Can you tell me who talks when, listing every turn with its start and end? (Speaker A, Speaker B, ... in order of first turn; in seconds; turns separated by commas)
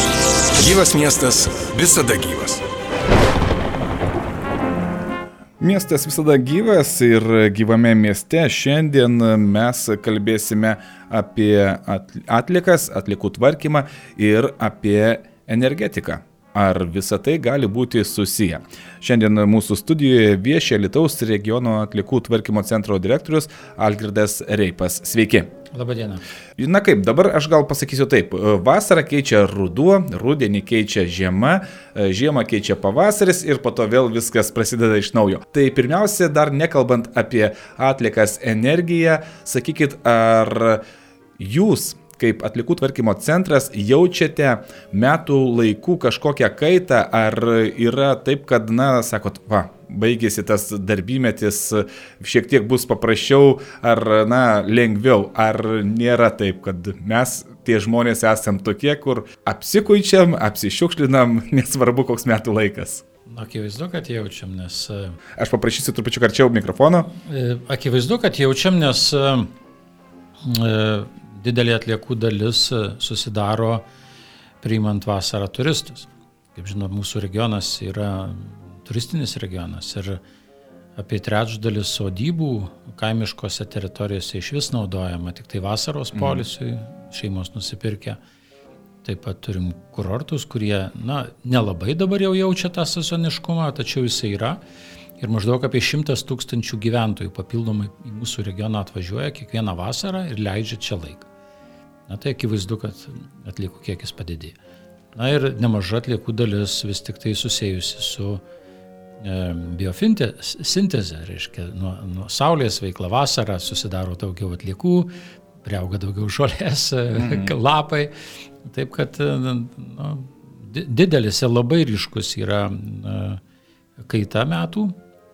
Speaker A: 0.6-2.6, Speaker B: 5.6-25.5, Speaker C: 25.7-26.2, Speaker B: 26.6-40.8, Speaker B: 41.4-63.0, Speaker C: 63.3-65.2, Speaker B: 65.4-67.1, Speaker C: 67.2-69.5, Speaker C: 70.4-73.8, Speaker C: 74.6-80.2, Speaker C: 81.0-88.2, Speaker B: 86.1-86.4, Speaker C: 89.0-94.6, Speaker C: 95.2-101.3, Speaker C: 102.1-104.6, Speaker C: 105.2-108.4, Speaker C: 109.2-115.1, Speaker C: 115.6-118.1, Speaker B: 117.2-117.5, Speaker C: 118.7-123.4, Speaker C: 124.0-125.0